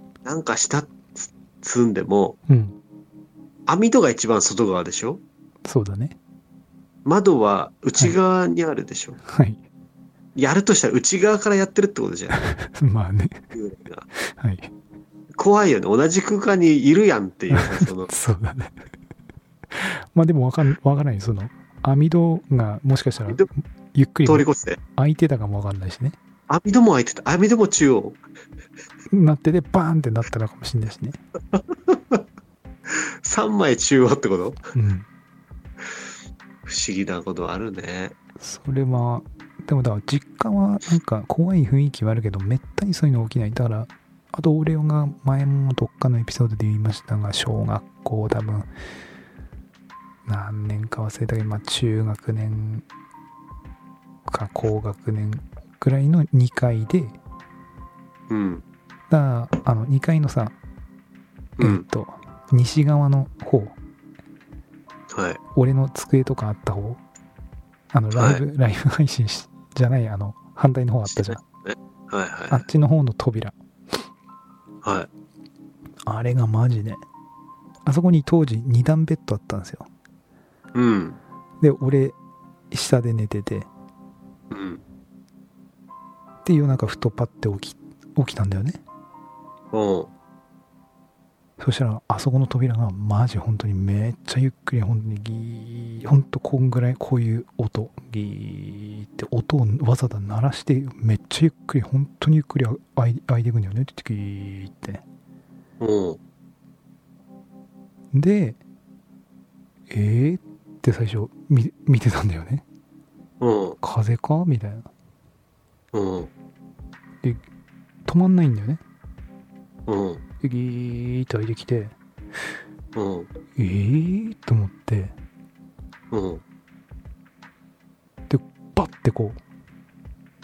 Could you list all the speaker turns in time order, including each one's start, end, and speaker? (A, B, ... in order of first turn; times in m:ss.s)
0:00.2-0:02.4 A
0:02.5-0:02.8 B
0:03.7-0:05.2 A
0:05.6-0:06.2 B
0:07.0-0:09.2 A
0:09.3-0:09.6 B
0:10.4-0:12.3 A
0:12.4-0:13.4 B
0:13.5-0:14.0 A
0:14.2-0:14.7 B
0:15.4-0:18.1 A
0:17.5-0:18.8 B
0:19.7-0:26.2 B
0:24.3-0:24.8 A
0:26.5-0:28.2 A
0:29.1-0:31.2 B
0:31.5-0:32.2 A
0:32.9-0:34.6 A
0:34.7-0:35.1 B
0:36.7-0:38.2 A
0:38.4-0:48.7 B
0:50.3-0:52.9 B
0:54.3-0:57.2 B
0:58.3-0:58.6 A
0:59.1-1:00.6 B
1:01.6-1:01.8 A
1:01.6-1:03.8 B
1:05.1-1:05.4 A
1:05.6-1:07.0 B
1:07.9-1:11.4 B
1:08.1-1:08.4 A
1:11.1-1:12.6 A
1:12.5-1:13.6 B
1:16.1-1:17.0 B
1:17.8-1:19.9 B
1:20.7-1:21.2 A
1:21.6-1:22.2 B
1:22.7-1:23.7 B
1:24.5-1:24.8 A
1:26.4-1:28.8 B
1:29.7-1:30.1 A
1:31.6-1:45.0 B
1:45.8-1:46.2 A
1:48.1-1:48.6 B
1:49.9-1:52.6 B
1:53.4-1:53.8 A
1:53.8-1:54.9 B
1:55.9-1:56.3 A
1:58.1-1:58.8 B
1:59.9-2:00.2 A
2:00.4-2:02.0 B
2:03.0-2:03.3 A
2:03.6-2:05.1 B
2:06.1-2:06.4 A
2:08.3-2:09.4 B